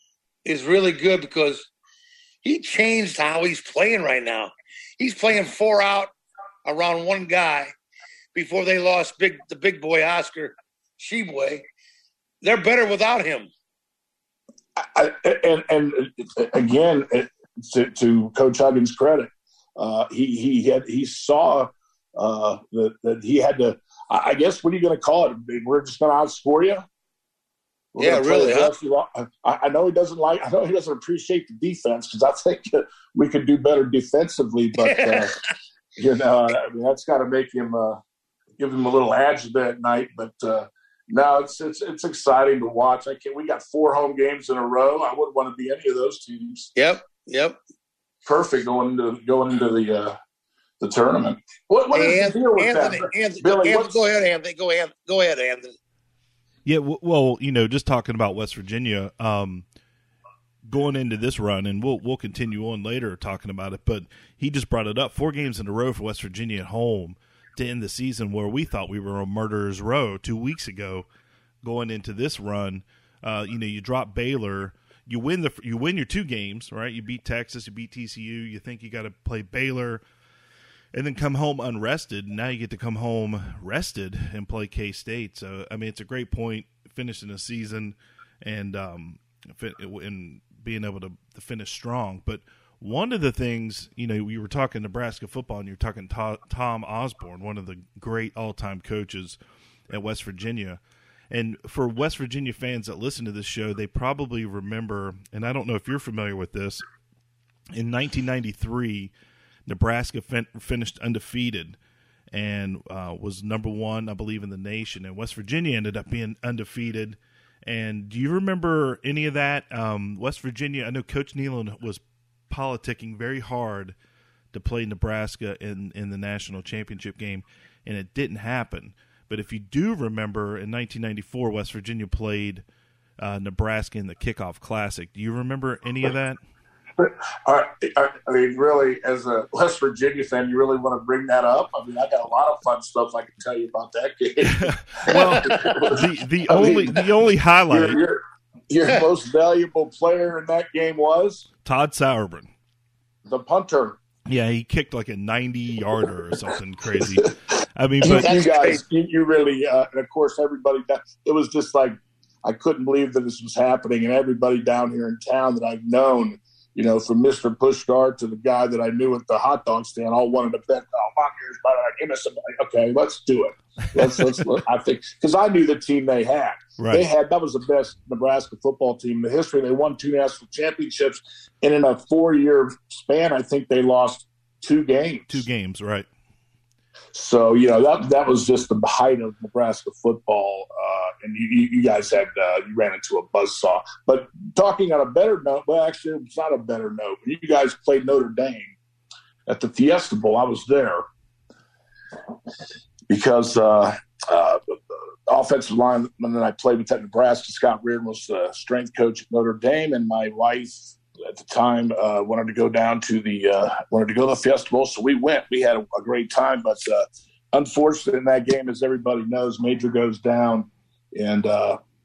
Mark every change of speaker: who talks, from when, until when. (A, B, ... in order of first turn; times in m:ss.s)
0:00.4-0:01.7 A
0:02.4-0:06.1 A
0:06.7-0:07.7 A
0:08.4-0:11.6 A
0:12.4-0:13.5 A
0:14.8-0:26.8 B
0:27.9-0:35.3 B
0:28.0-0:28.7 A
0:34.8-0:35.3 A
0:36.0-0:38.0 B
0:38.6-0:46.7 B
0:46.8-0:47.6 A
0:48.2-0:50.2 B
0:50.8-0:54.0 B
0:51.9-0:55.8 A
0:56.7-0:59.6 C
1:00.7-1:11.1 C
1:11.6-1:20.0 C
1:20.9-1:39.4 C
1:39.9-1:40.8 C
1:41.3-1:46.8 C
1:47.7-1:49.1 C
1:49.7-1:51.8 C
1:52.3-2:04.0 C
2:04.5-2:12.6 C
2:13.2-2:16.4 C
2:17.0-2:27.1 B
2:24.6-2:28.0 C
2:25.1-2:25.8 A
2:27.7-2:31.5 B
2:31.6-2:32.5 C
2:33.3-2:34.0 B
2:34.3-2:38.3 C
2:38.0-3:05.4 B
2:38.1-2:38.8 A
2:54.0-2:54.4 C
2:56.8-2:57.1 C
3:05.3-3:06.1 C
3:07.1-3:18.7 B
3:19.5-3:21.1 B
3:23.1-3:24.8 B
3:25.3-3:41.8 B